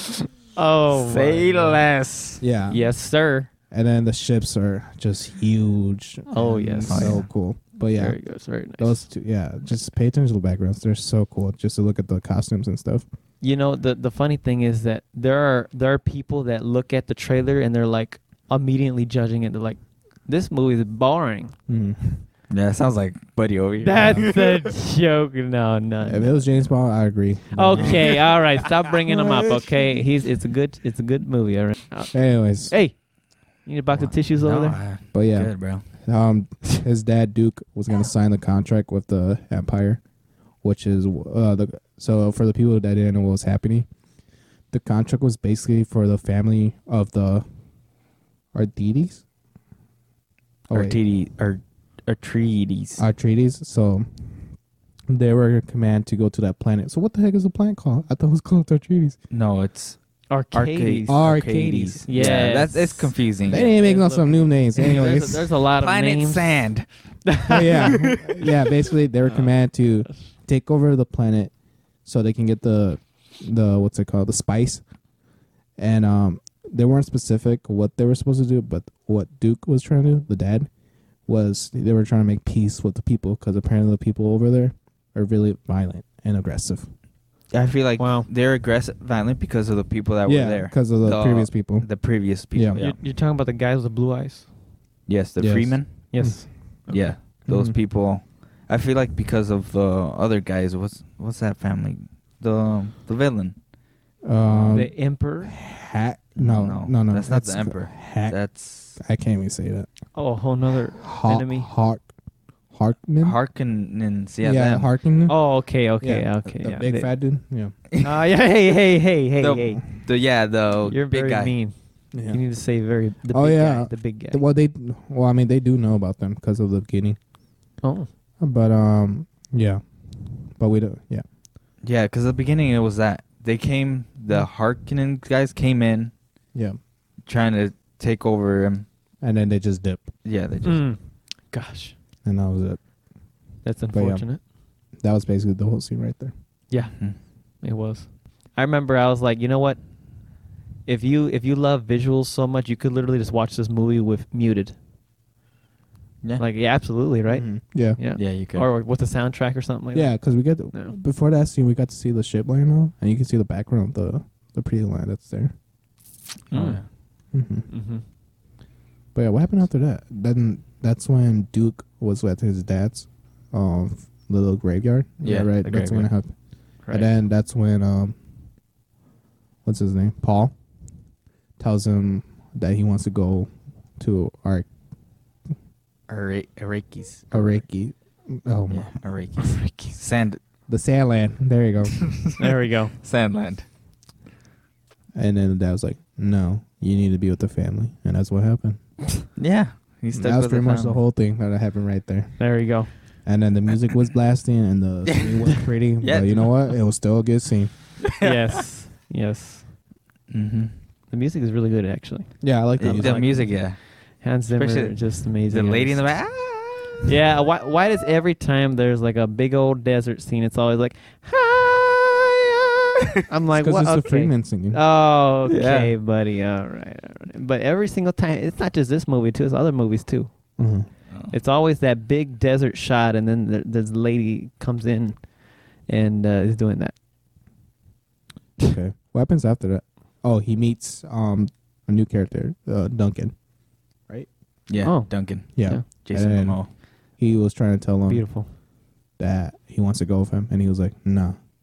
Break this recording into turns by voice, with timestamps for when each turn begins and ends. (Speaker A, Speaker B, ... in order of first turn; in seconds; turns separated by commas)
Speaker A: 0.6-1.8, Speaker B: 0.9-2.4, Speaker C: 2.4-2.9, Speaker A: 2.7-3.5, Speaker C: 3.7-8.2, Speaker A: 6.3-7.2, Speaker B: 6.9-7.3, Speaker A: 8.0-9.1, Speaker C: 8.8-13.1, Speaker A: 13.4-21.6, Speaker C: 21.7-22.2, Speaker B: 22.5-24.7, Speaker A: 23.8-26.4, Speaker C: 26.1-28.2, Speaker A: 27.5-33.0, Speaker B: 27.8-28.0, Speaker C: 32.1-32.7, Speaker A: 33.6-34.8, Speaker B: 33.9-35.8, Speaker C: 35.1-40.0, Speaker C: 40.6-43.9, Speaker C: 44.7-47.5, Speaker C: 48.5-49.2, Speaker C: 50.7-51.0, Speaker B: 50.7-53.0, Speaker C: 53.0-54.5, Speaker C: 55.1-59.2, Speaker B: 59.3-60.0, Speaker A: 60.3-61.2, Speaker B: 60.5-63.7, Speaker C: 61.1-62.6, Speaker A: 62.1-66.7, Speaker C: 63.5-65.4, Speaker B: 64.8-66.9, Speaker A: 67.3-68.2, Speaker C: 67.5-71.5, Speaker C: 72.0-74.8, Speaker C: 75.8-80.7, Speaker C: 81.3-86.9, Speaker B: 87.5-93.0, Speaker A: 88.0-88.3, Speaker C: 90.3-91.9, Speaker C: 92.5-92.8, Speaker A: 92.8-94.5, Speaker B: 95.1-95.9, Speaker C: 95.4-96.5, Speaker A: 96.1-97.0, Speaker B: 96.9-103.6, Speaker C: 97.5-97.8, Speaker C: 104.2-104.9, Speaker B: 104.5-104.8, Speaker A: 104.7-105.5, Speaker C: 105.5-108.4, Speaker B: 106.4-109.0, Speaker C: 109.0-109.9, Speaker A: 110.2-111.7, Speaker C: 111.0-112.0, Speaker C: 112.7-113.4, Speaker B: 113.2-114.9, Speaker C: 114.4-115.4, Speaker A: 115.3-117.1, Speaker C: 116.0-117.7, Speaker B: 117.9-118.2, Speaker A: 118.0-119.8, Speaker B: 119.4-121.5, Speaker A: 120.8-121.7, Speaker C: 122.1-122.4, Speaker A: 122.3-124.4, Speaker C: 123.3-127.2, Speaker A: 127.8-128.1, Speaker C: 128.4-131.2, Speaker B: 131.8-136.1, Speaker B: 137.3-138.9, Speaker C: 139.2-140.1, Speaker B: 140.2-140.8, Speaker A: 140.6-141.0, Speaker A: 141.5-141.9, Speaker C: 142.2-142.8, Speaker A: 143.7-144.4, Speaker C: 143.9-144.2, Speaker C: 145.0-146.3, Speaker B: 146.9-147.2, Speaker A: 147.6-149.8, Speaker A: 150.9-154.8, Speaker A: 156.4-160.2, Speaker C: 157.3-158.0, Speaker B: 158.2-158.7, Speaker C: 159.9-165.5, Speaker B: 166.5-166.8, Speaker A: 166.5-166.8, Speaker C: 167.3-167.7, Speaker A: 167.7-168.0, Speaker C: 169.2-176.3, Speaker B: 175.2-176.1, Speaker A: 175.7-176.0, Speaker A: 176.8-177.1, Speaker C: 176.9-178.2, Speaker C: 179.7-180.5, Speaker C: 181.6-184.7, Speaker B: 186.1-187.6, Speaker C: 187.3-188.9, Speaker B: 188.7-190.4, Speaker A: 189.4-190.0, Speaker C: 190.7-192.1, Speaker B: 192.0-193.7, Speaker A: 192.4-192.9, Speaker C: 195.2-198.8, Speaker B: 199.4-201.0, Speaker C: 200.1-202.4, Speaker A: 202.4-202.9, Speaker C: 203.2-207.7, Speaker B: 205.1-206.8, Speaker B: 208.0-208.6, Speaker A: 208.2-209.7, Speaker B: 210.3-210.7, Speaker A: 211.1-213.6, Speaker C: 212.4-213.5, Speaker B: 212.8-213.8, Speaker A: 214.2-216.1, Speaker B: 214.5-217.1, Speaker A: 217.1-222.3, Speaker A: 223.3-230.3, Speaker C: 223.5-224.8, Speaker B: 225.4-225.9, Speaker C: 230.6-230.9, Speaker A: 231.3-235.2, Speaker A: 235.9-236.9, Speaker C: 238.7-243.3, Speaker B: 244.7-246.7, Speaker A: 244.8-245.8, Speaker C: 245.6-246.6, Speaker C: 247.2-248.3, Speaker A: 248.1-248.5, Speaker C: 249.2-251.4